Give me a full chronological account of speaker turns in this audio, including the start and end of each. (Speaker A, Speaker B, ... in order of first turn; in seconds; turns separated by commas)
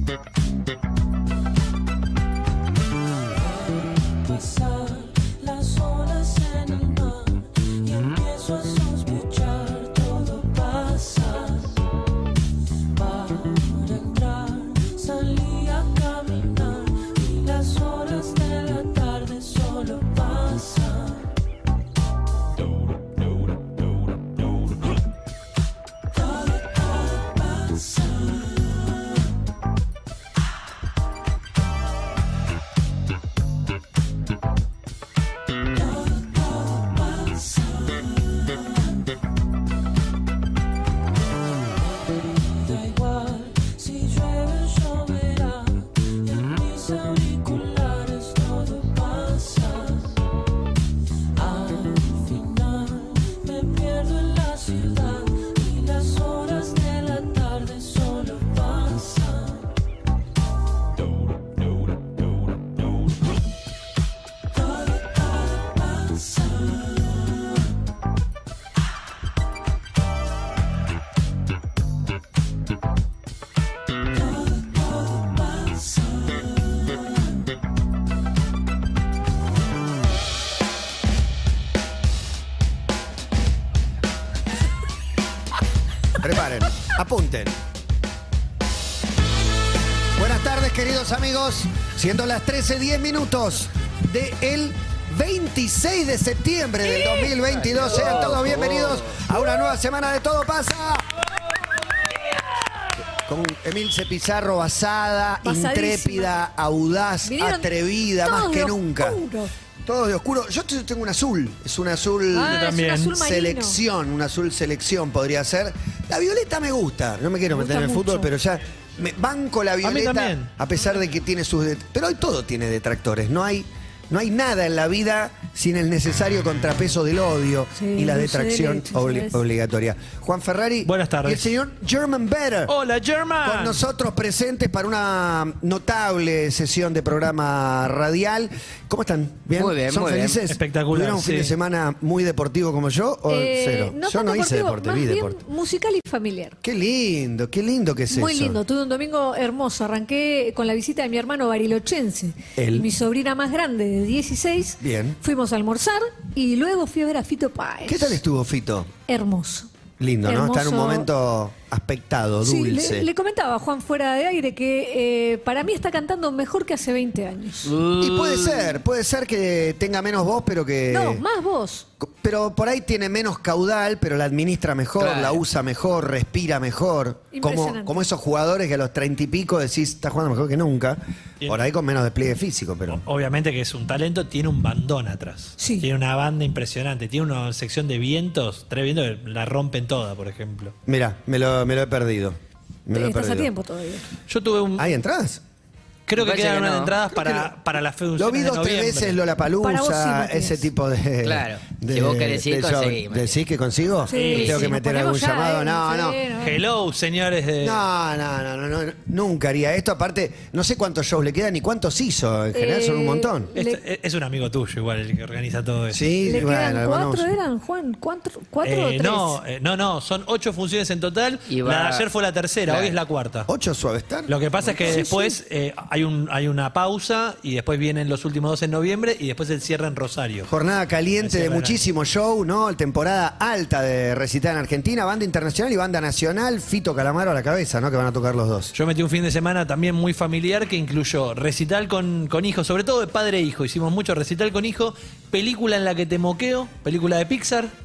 Speaker A: 4.3-6.0, Speaker A: 6.6-7.3, Speaker A: 7.9-11.1, Speaker A: 15.0-16.5, Speaker A: 17.2-17.6, Speaker A: 18.4-19.4, Speaker A: 42.8-43.7, Speaker A: 44.2-45.6, Speaker A: 46.6-49.5, Speaker A: 51.9-52.9, Speaker A: 53.5-54.0, Speaker A: 55.3-59.2, Speaker B: 86.2-87.6, Speaker B: 90.2-101.1, Speaker C: 97.5-99.2, Speaker B: 103.1-109.2, Speaker D: 105.4-106.3, Speaker D: 107.2-109.5, Speaker B: 109.8-132.7, Speaker D: 112.3-113.8, Speaker E: 112.4-113.2, Speaker D: 117.5-118.3, Speaker E: 119.8-120.5, Speaker D: 127.8-129.4, Speaker E: 130.8-131.5, Speaker E: 132.7-133.8, Speaker B: 133.4-145.4, Speaker C: 139.6-140.4, Speaker E: 140.5-141.5, Speaker D: 143.3-146.6, Speaker B: 146.6-148.6, Speaker D: 148.1-158.2, Speaker B: 152.6-152.9, Speaker B: 154.8-155.2, Speaker B: 157.9-158.9, Speaker D: 159.1-159.7, Speaker B: 160.0-163.1, Speaker D: 160.2-161.1, Speaker D: 162.4-167.7, Speaker C: 167.7-168.8, Speaker B: 168.0-171.2, Speaker D: 170.9-171.9, Speaker B: 172.0-183.0, Speaker C: 175.0-175.4, Speaker D: 177.3-178.1, Speaker E: 182.9-190.7, Speaker D: 185.6-185.9, Speaker B: 190.9-193.5, Speaker D: 192.9-194.1, Speaker E: 194.3-194.9, Speaker B: 194.8-195.4, Speaker E: 196.1-199.2, Speaker C: 196.2-196.9, Speaker B: 197.1-197.5, Speaker B: 198.2-206.2, Speaker D: 199.6-200.7, Speaker C: 201.2-203.4, Speaker D: 204.1-206.6, Speaker E: 204.1-204.7, Speaker C: 204.4-204.6, Speaker E: 206.4-207.9, Speaker B: 207.6-213.5, Speaker D: 212.5-213.8, Speaker E: 213.6-216.4, Speaker B: 215.9-217.3, Speaker D: 216.2-219.4, Speaker E: 218.6-223.5, Speaker C: 221.5-222.1, Speaker C: 222.7-222.9, Speaker B: 223.5-225.0, Speaker E: 224.3-230.5, Speaker D: 224.8-225.4, Speaker B: 230.5-238.7, Speaker E: 231.2-231.8, Speaker E: 238.7-247.7